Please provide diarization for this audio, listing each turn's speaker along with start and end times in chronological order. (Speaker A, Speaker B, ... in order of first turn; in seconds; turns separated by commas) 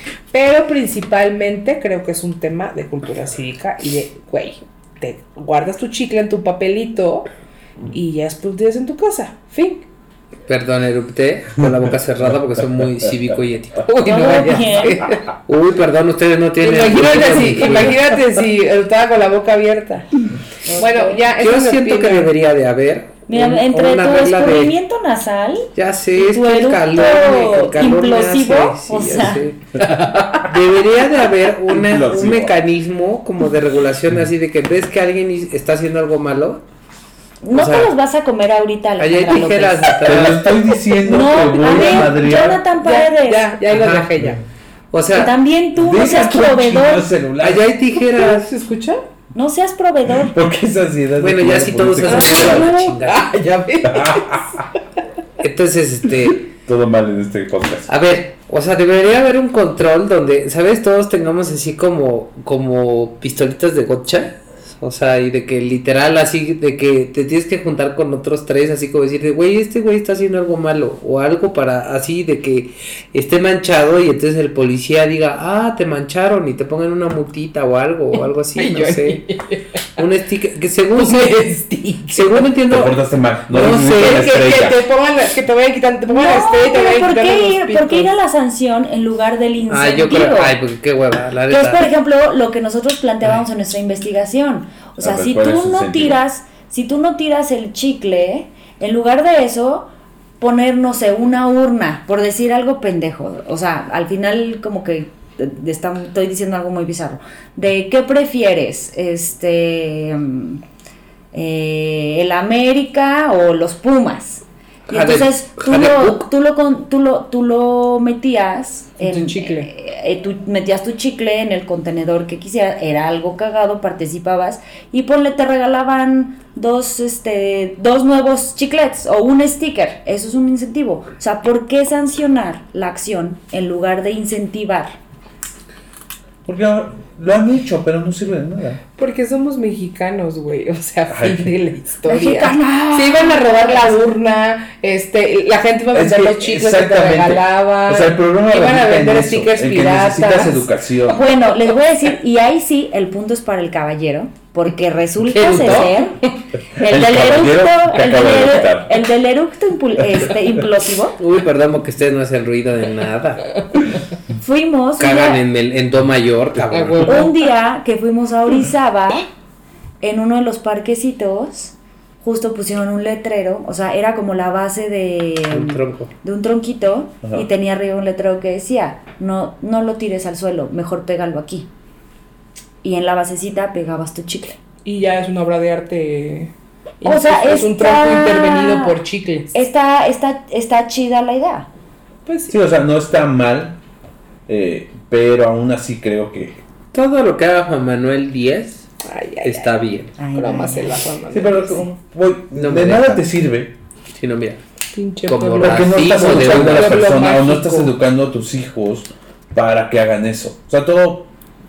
Speaker A: 0.3-7.3, Speaker A: 7.9-9.8, Speaker B: 10.5-14.6, Speaker A: 13.8-15.2, Speaker C: 14.0-15.1, Speaker B: 15.5-18.1, Speaker A: 16.6-20.1, Speaker C: 20.6-21.2, Speaker A: 20.8-22.3, Speaker B: 21.4-24.7, Speaker C: 23.3-29.4, Speaker B: 25.8-36.6, Speaker D: 31.7-32.5, Speaker C: 37.4-40.1, Speaker B: 37.5-37.9, Speaker B: 39.0-40.5, Speaker D: 40.0-42.6, Speaker C: 41.0-43.5, Speaker A: 41.1-44.4, Speaker B: 43.7-44.1, Speaker B: 44.9-45.3, Speaker C: 45.1-47.1, Speaker D: 45.8-47.7, Speaker B: 47.4-48.5, Speaker A: 48.0-49.0, Speaker C: 49.3-50.4, Speaker D: 50.2-52.7, Speaker B: 51.2-53.3, Speaker A: 52.0-54.4, Speaker D: 53.8-54.6, Speaker B: 55.4-56.5, Speaker D: 56.5-57.9, Speaker B: 57.9-79.2, Speaker A: 78.5-79.8, Speaker B: 80.0-81.5, Speaker A: 80.9-82.5, Speaker B: 82.1-84.4, Speaker D: 82.7-84.8, Speaker A: 83.7-88.1, Speaker C: 86.1-90.5, Speaker B: 89.7-91.9, Speaker C: 91.5-99.9, Speaker D: 95.0-96.2, Speaker C: 100.4-110.6, Speaker C: 111.3-135.0, Speaker B: 114.9-116.3, Speaker A: 119.0-119.7, Speaker D: 136.4-138.8, Speaker A: 139.0-150.7, Speaker D: 141.1-141.5, Speaker C: 142.1-143.9, Speaker D: 145.9-151.2, Speaker C: 151.1-156.2, Speaker B: 155.3-155.9, Speaker A: 155.3-156.0, Speaker C: 156.8-161.2, Speaker D: 156.8-159.0, Speaker B: 161.2-163.6, Speaker C: 164.4-165.4, Speaker B: 165.0-167.3, Speaker A: 166.7-167.3, Speaker C: 167.0-169.2, Speaker C: 170.0-181.7, Speaker B: 175.5-176.1, Speaker C: 182.8-184.6, Speaker A: 184.8-189.5, Speaker C: 187.0-189.0, Speaker C: 189.5-191.7, Speaker A: 192.2-192.6, Speaker D: 192.5-193.8, Speaker D: 194.5-196.6, Speaker B: 196.9-198.9, Speaker A: 199.0-199.7, Speaker B: 199.4-200.1, Speaker C: 200.2-201.0, Speaker A: 200.3-201.9, Speaker D: 201.3-203.7, Speaker B: 202.5-203.2, Speaker B: 204.1-204.6, Speaker A: 204.9-207.9, Speaker B: 205.2-207.1, Speaker D: 205.6-211.3